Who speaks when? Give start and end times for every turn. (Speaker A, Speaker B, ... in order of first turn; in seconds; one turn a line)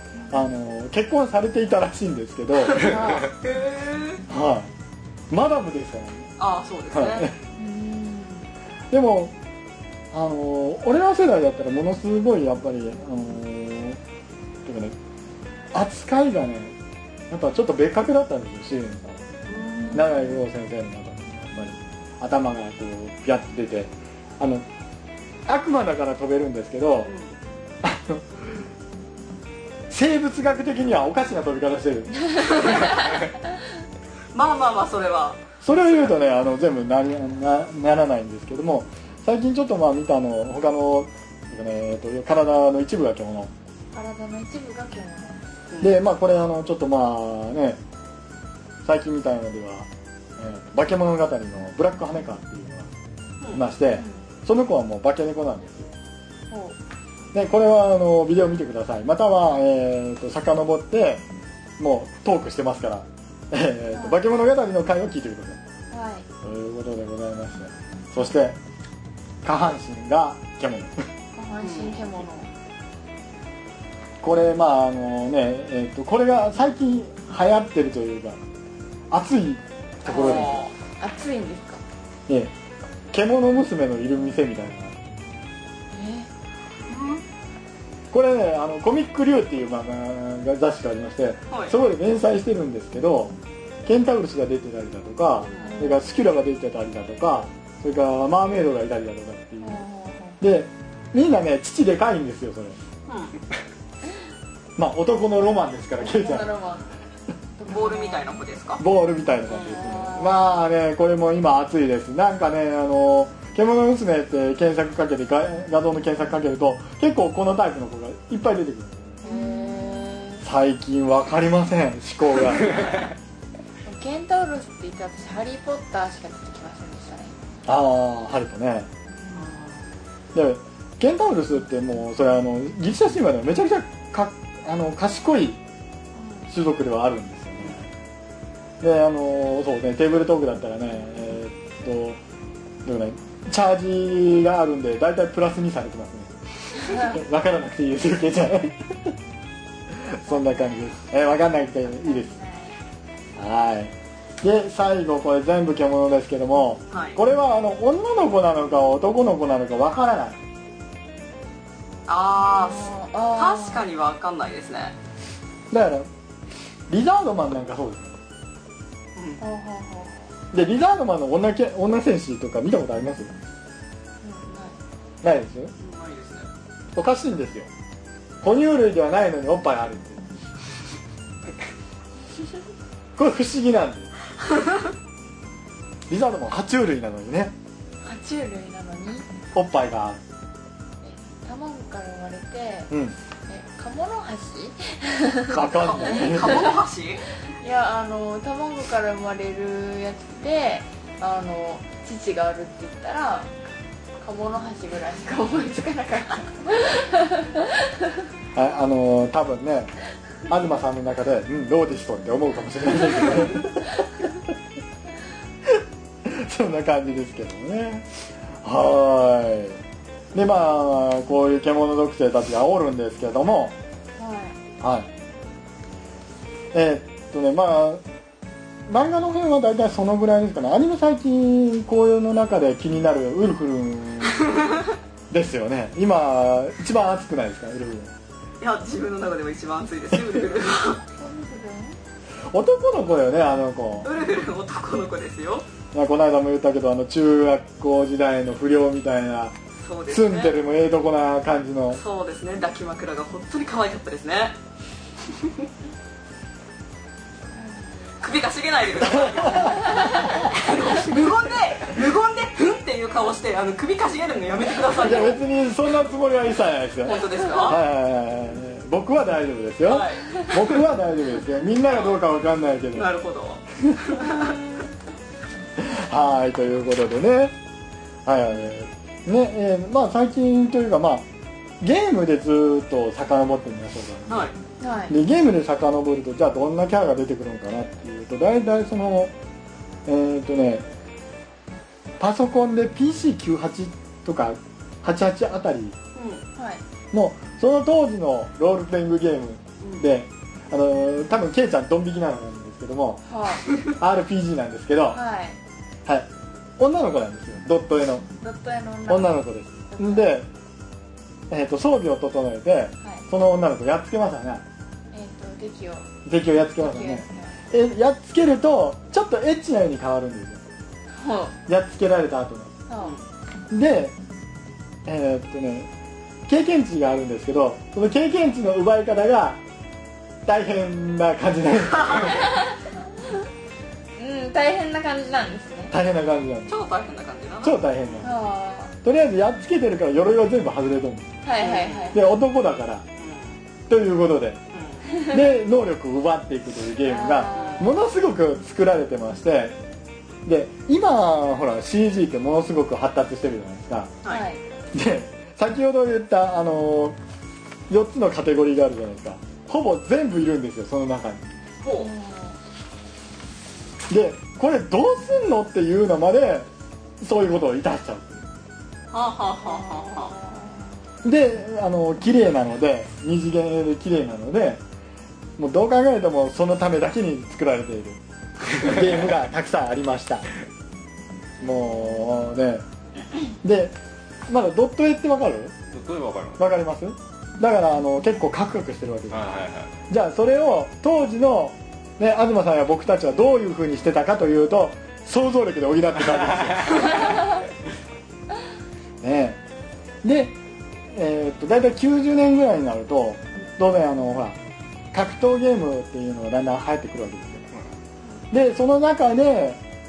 Speaker A: 0.2-0.5
Speaker B: 0.3-3.2
Speaker C: 2.7-4.2
Speaker A: 2.8-3.3
Speaker B: 4.3-4.7
Speaker B: 5.3-6.3
Speaker C: 6.4-7.3
Speaker B: 6.9-7.3
Speaker A: 7.6-8.5
Speaker B: 8.9-9.3
Speaker B: 10.1-14.0
Speaker B: 14.6-14.9
Speaker B: 15.7-16.8
Speaker B: 17.3-19.3
Speaker C: 19.5-20.1
Speaker B: 19.9-24.6
Speaker B: 25.5-27.1
Speaker C: 27.0-27.4
Speaker B: 27.8-28.6
Speaker B: 29.9-32.7
Speaker A: 32.6-33.2
Speaker C: 32.7-33.0
Speaker C: 34.3-36.2
Speaker B: 35.6-43.5
Speaker A: 43.9-45.4
Speaker B: 45.8-47.8
Speaker B: 48.8-52.9
Speaker B: 53.5-55.9
Speaker A: 53.9-54.2
Speaker A: 56.5-56.8
Speaker B: 57.3-61.2
Speaker B: 61.8-65.6
Speaker A: 63.9-64.2
Speaker A: 65.9-66.2
Speaker B: 66.4-68.6
Speaker B: 69.4-71.1
Speaker A: 71.3-72.5
Speaker C: 71.6-72.0
Speaker B: 74.2-78.4
Speaker B: 79.1-80.6
Speaker A: 80.0-81.8
Speaker C: 80.1-80.7
Speaker B: 83.1-85.0
Speaker A: 85.9-86.3
Speaker C: 86.9-87.2
Speaker B: 88.1-93.3
Speaker C: 91.5-91.8
Speaker B: 93.8-99.8
Speaker C: 95.4-95.7
Speaker A: 95.6-96.0
Speaker A: 99.6-100.4
Speaker B: 100.4-102.8
Speaker C: 103.1-103.3
Speaker B: 104.8-106.5
Speaker A: 106.0-106.9
Speaker A: 107.6-108.4
Speaker C: 107.7-108.8
Speaker B: 108.8-119.3
Speaker A: 109.5-110.4
Speaker A: 119.2-120.4
Speaker C: 119.3-119.8
Speaker B: 120.4-122.9
Speaker A: 123.8-127.3
Speaker B: 127.7-128.9
Speaker A: 129.1-129.5
Speaker C: 129.3-129.8
Speaker B: 130.3-135.6
Speaker A: 136.1-136.5
Speaker B: 136.5-137.9
Speaker B: 138.8-142.2
Speaker B: 142.8-149.2
Speaker A: 146.9-147.1
Speaker B: 149.9-152.3
Speaker A: 150.3-151.0
Speaker A: 151.9-152.8
Speaker B: 153.3-160.4
Speaker C: 156.9-157.2
Speaker C: 162.1-164.9
Speaker A: 162.4-163.8
Speaker B: 165.7-166.1
Speaker B: 166.9-168.2
Speaker C: 169.2-169.4
Speaker A: 169.4-170.3
Speaker B: 170.5-173.3
Speaker A: 174.2-174.8
Speaker B: 175.2-175.7
Speaker C: 175.8-176.5
Speaker B: 176.9-177.7
Speaker B: 178.4-180.3
Speaker B: 183.2-184.1
Speaker B: 186.1-187.5
Speaker A: 188.0-189.3
Speaker B: 189.5-190.2
Speaker A: 191.0-192.9
Speaker B: 192.9-193.2
Speaker A: 193.5-196.7
Speaker B: 195.5-196.7
Speaker C: 195.7-197.2
Speaker A: 197.4-203.5
Speaker A: 204.2-208.2
Speaker B: 208.5-209.9
Speaker B: 210.5-214.0
Speaker B: 215.6-218.1
Speaker B: 218.6-219.8
Speaker B: 220.3-223.7
Speaker A: 224.2-224.6
Speaker B: 224.8-225.1
Speaker B: 226.7-228.0
Speaker B: 228.9-234.8
Speaker B: 235.3-238.1
Speaker C: 238.6-241.0
Speaker A: 241.2-242.0
Speaker B: 242.5-244.1
Speaker C: 244.0-245.7
Speaker B: 245.9-252.0
Speaker C: 249.8-250.6
Speaker C: 251.9-254.6
Speaker A: 257.6-257.9
Speaker C: 258.2-265.4
Speaker B: 259.0-260.5
Speaker A: 259.6-260.4
Speaker B: 265.0-273.1
Speaker C: 267.0-267.8
Speaker C: 269.8-270.8
Speaker C: 271.9-272.2
Speaker C: 272.9-274.6
Speaker A: 274.2-274.8
Speaker B: 275.8-277.5
Speaker B: 278.2-281.2
Speaker B: 281.8-284.5
Speaker C: 284.3-284.5
Speaker A: 284.8-285.2
Speaker B: 285.1-289.3
Speaker B: 290.1-290.8
Speaker B: 292.2-296.0
Speaker C: 296.1-296.4
Speaker A: 296.5-296.8
Speaker B: 297.1-303.2
Speaker C: 299.8-300.1
Speaker A: 303.2-303.6
Speaker B: 304.0-305.2
Speaker A: 305.1-305.6
Speaker B: 306.1-308.3
Speaker A: 308.4-310.3
Speaker B: 309.1-310.5
Speaker B: 311.5-314.6
Speaker A: 315.1-316.1
Speaker B: 316.2-320.6
Speaker A: 316.8-317.6
Speaker A: 321.1-321.6
Speaker B: 321.7-322.8
Speaker A: 322.9-323.2
Speaker C: 323.0-323.2
Speaker B: 323.7-324.1
Speaker B: 325.0-325.9
Speaker B: 326.5-329.6
Speaker B: 330.4-332.4
Speaker C: 332.0-332.2
Speaker A: 332.2-332.7
Speaker A: 334.2-335.9
Speaker B: 335.9-336.8
Speaker C: 336.7-338.3
Speaker B: 337.6-338.4
Speaker A: 338.2-338.9
Speaker B: 339.0-341.3
Speaker A: 341.4-342.2
Speaker C: 341.6-342.2
Speaker B: 342.1-343.1
Speaker C: 343.2-343.6
Speaker B: 343.9-344.6
Speaker C: 344.7-345.0
Speaker B: 345.3-349.8
Speaker A: 347.0-348.0
Speaker C: 347.5-347.9
Speaker B: 350.4-354.1
Speaker A: 354.2-354.6
Speaker B: 354.9-357.2
Speaker B: 357.9-361.5
Speaker C: 361.8-362.1
Speaker A: 361.9-362.6
Speaker B: 364.1-366.7
Speaker B: 367.2-368.5
Speaker C: 369.1-370.3
Speaker A: 369.6-370.9
Speaker B: 371.2-374.8
Speaker B: 375.6-378.2
Speaker B: 378.7-380.5
Speaker B: 381.6-382.8
Speaker A: 381.6-382.5
Speaker B: 383.6-383.9
Speaker B: 384.5-385.7
Speaker D: 385.9-386.6
Speaker B: 386.6-397.3
Speaker D: 389.3-389.9
Speaker D: 396.5-397.1
Speaker B: 399.2-399.6
Speaker B: 400.2-400.6
Speaker B: 401.1-404.6
Speaker B: 405.1-407.7
Speaker B: 408.5-409.8